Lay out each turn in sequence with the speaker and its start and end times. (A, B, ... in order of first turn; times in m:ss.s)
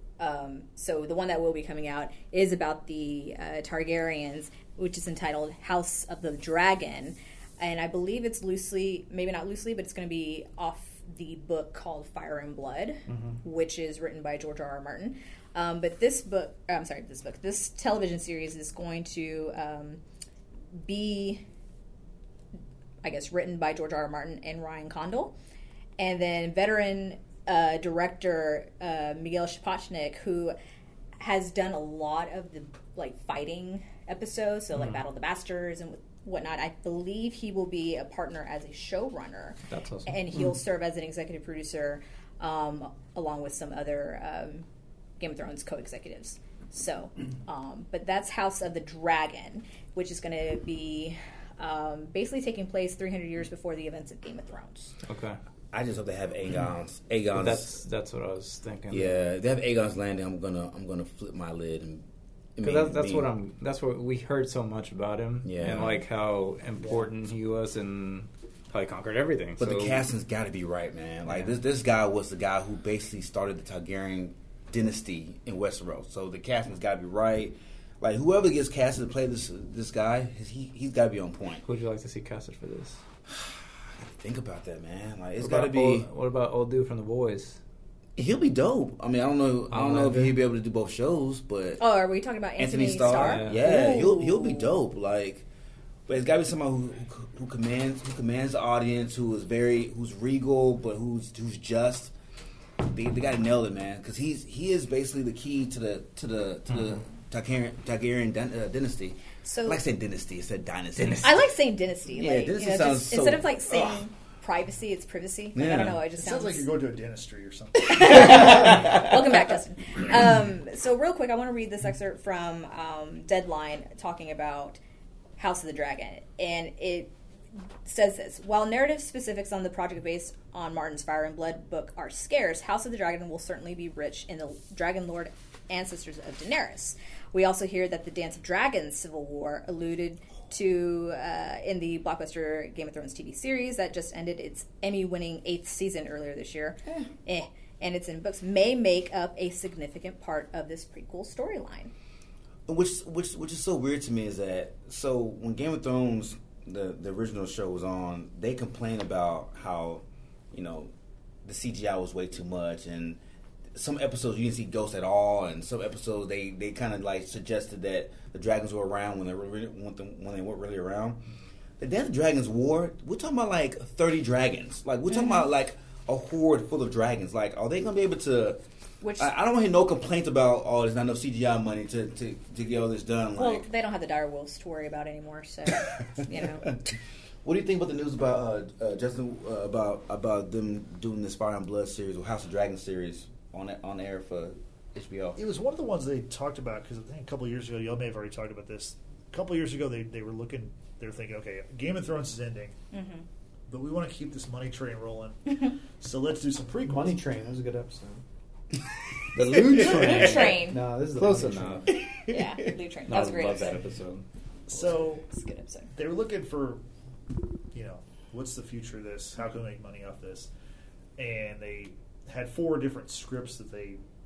0:00.2-0:20.0 A
0:13.1-0:13.4 B
0:20.7-0:21.4 A
0:23.0-0:25.3 A
0:26.0-0:30.5 A
0:31.2-0:44.6 A
0:39.7-0:40.2 B
0:45.2-0:54.9 A
0:55.0-0:55.4 B
0:55.7-0:57.7 C
0:57.3-0:59.2 B
0:58.9-1:02.0 C
1:02.6-1:03.3 C
1:02.6-1:10.0 B
1:05.4-1:06.0 C
1:06.8-1:07.1 D
1:09.6-1:21.6 C
1:11.2-1:11.6 B
1:21.6-1:23.0 B
1:23.3-1:26.1 C
1:25.4-1:27.6 B
1:28.2-1:31.8 C
1:29.7-1:30.4 B
1:31.8-1:34.7 A
1:32.6-1:35.4 C
1:33.1-1:33.7 B
1:36.1-1:42.1 C
1:42.8-1:51.4 C
1:49.4-1:49.8 A
1:51.0-1:51.4 B
1:51.2-1:56.7 A
1:52.1-1:54.0 C
1:55.5-1:56.0 C
1:56.1-1:58.9 E
1:57.8-2:04.8 A
2:05.4-2:07.1 A
2:07.8-2:31.9 A
2:32.7-2:40.9 C
2:41.4-2:43.2 C
2:43.7-2:51.2 C
2:51.8-2:58.6 C
2:55.1-2:55.5 A
2:59.0-2:59.3 A
2:59.2-3:03.6 C
3:03.4-3:06.7 A
3:07.4-3:15.4 C
3:15.4-3:22.8 E
3:22.9-3:23.2 A
3:23.7-3:27.2 E
3:26.8-3:28.2 D
3:29.3-3:31.9 B
3:29.8-3:30.8 A
3:30.0-3:31.9 D
3:32.3-3:33.8 A
3:33.1-3:34.2 B
3:34.7-3:35.3 E
3:35.3-3:35.9 A
3:35.9-3:36.8 E
3:37.7-3:40.5 E
3:41.2-3:44.0 E